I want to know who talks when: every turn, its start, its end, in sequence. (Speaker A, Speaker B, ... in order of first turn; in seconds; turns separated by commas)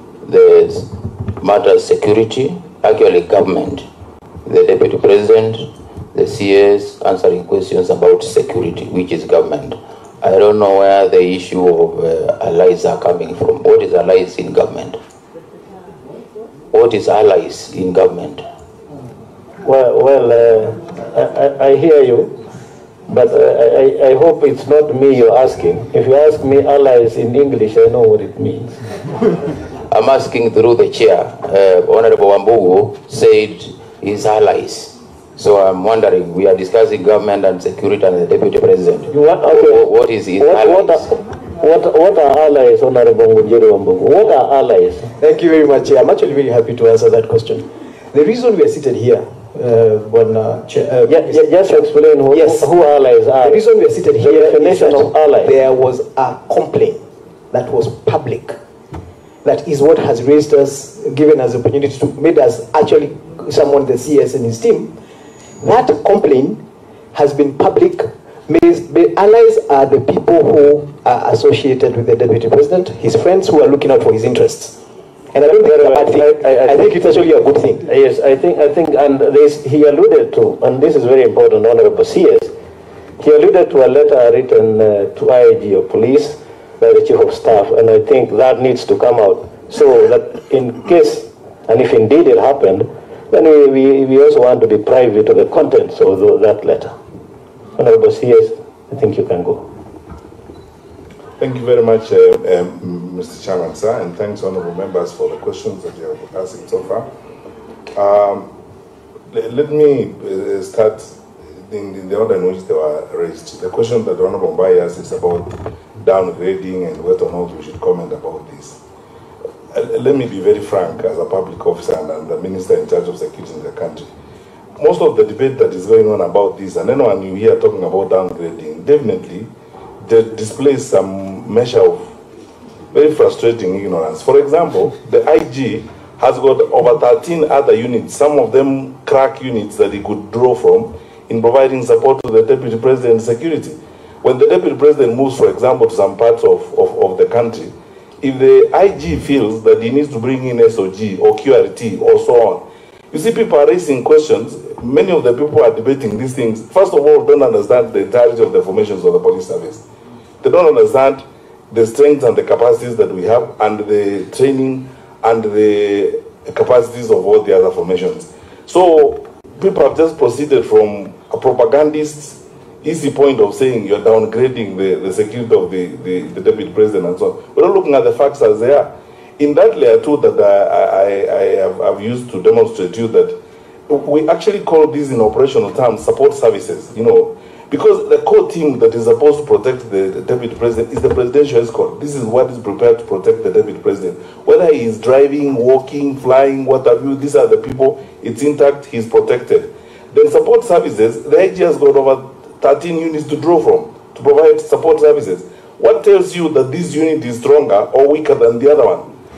Speaker A: 0.2-3.9, Speaker A: 4.5-15.0, Speaker A: 16.7-18.4, Speaker B: 19.6-22.4, Speaker B: 23.1-28.8, Speaker A: 29.9-41.1, Speaker B: 39.1-45.1, Speaker C: 45.2-52.7, Speaker B: 51.1-53.6, Speaker C: 53.4-58.6, Speaker B: 54.2-55.5, Speaker C: 59.4-65.0, Speaker C: 65.6-74.8, Speaker C: 75.3-77.9, Speaker B: 75.4-77.3, Speaker B: 77.8-82.5, Speaker B: 83.2-96.9, Speaker B: 97.8-99.7, Speaker D: 101.4-107.1, Speaker D: 107.9-108.5, Speaker D: 109.3-118.8, Speaker D: 119.7-124.1, Speaker D: 124.8-132.2, Speaker D: 132.9-159.8, Speaker D: 160.4-183.4, Speaker D: 183.9-209.1